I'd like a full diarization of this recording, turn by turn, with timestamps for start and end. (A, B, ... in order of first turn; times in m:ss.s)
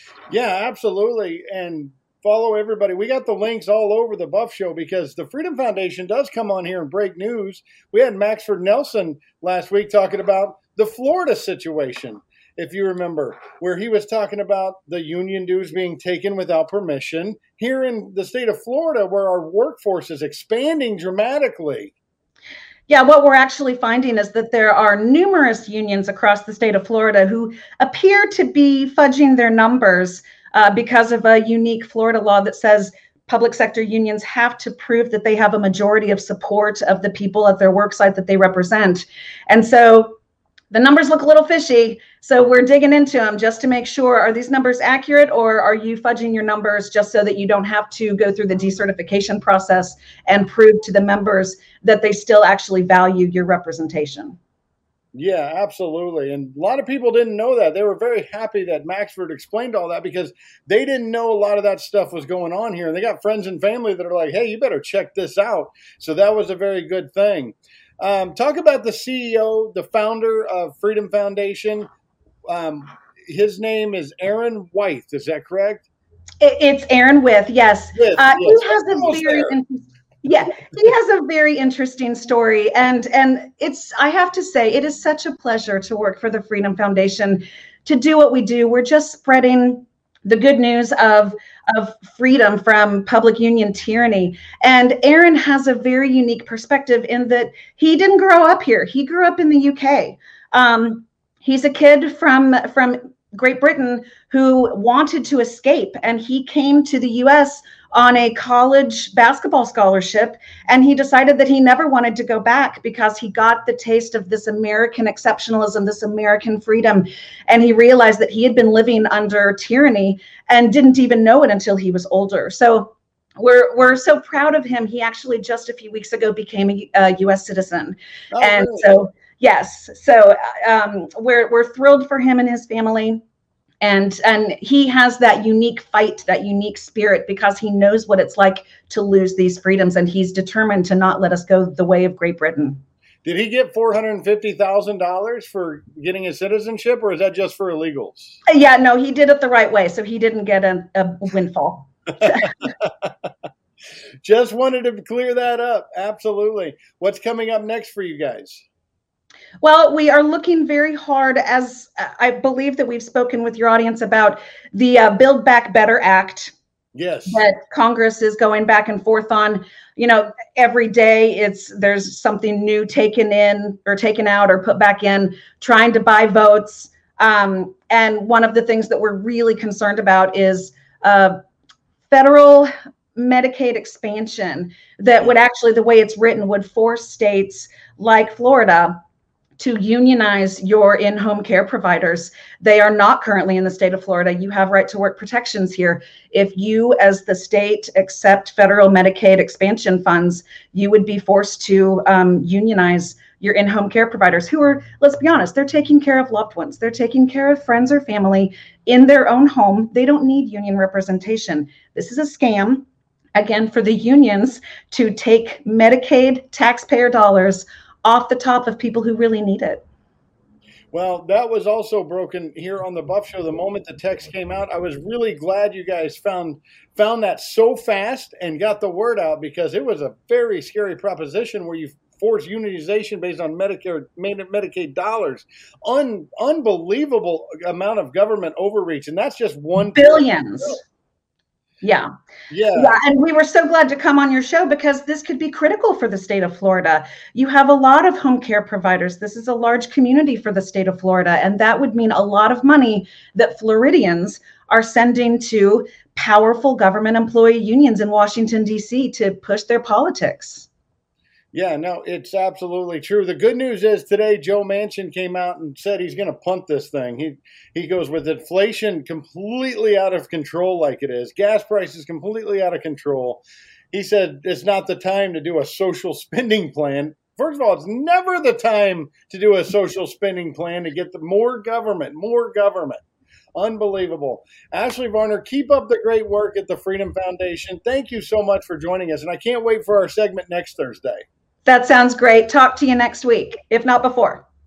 0:00.3-0:21.9 A
0:22.9-0:40.2 B
0:40.7-0:54.4 B
0:55.1-1:11.9 A
1:12.5-1:15.8 A
1:16.4-2:13.2 B
1:18.0-1:19.6 A
2:08.3-2:08.9 A
2:13.8-2:22.8 B
2:23.2-2:28.4 A
2:28.5-2:32.7 B
2:34.2-2:38.6 A
2:39.6-2:46.5 B
2:47.0-2:47.4 A
2:47.3-3:01.4 B
3:02.1-3:09.0 B
3:09.6-3:39.8 B
3:40.9-4:00.8 A
3:59.8-4:00.8 B
4:01.8-4:02.1 B
4:02.5-4:03.0 A
4:02.7-4:20.7 B
4:21.5-4:43.0 A
4:43.6-4:51.2 A
4:51.7-4:54.4 B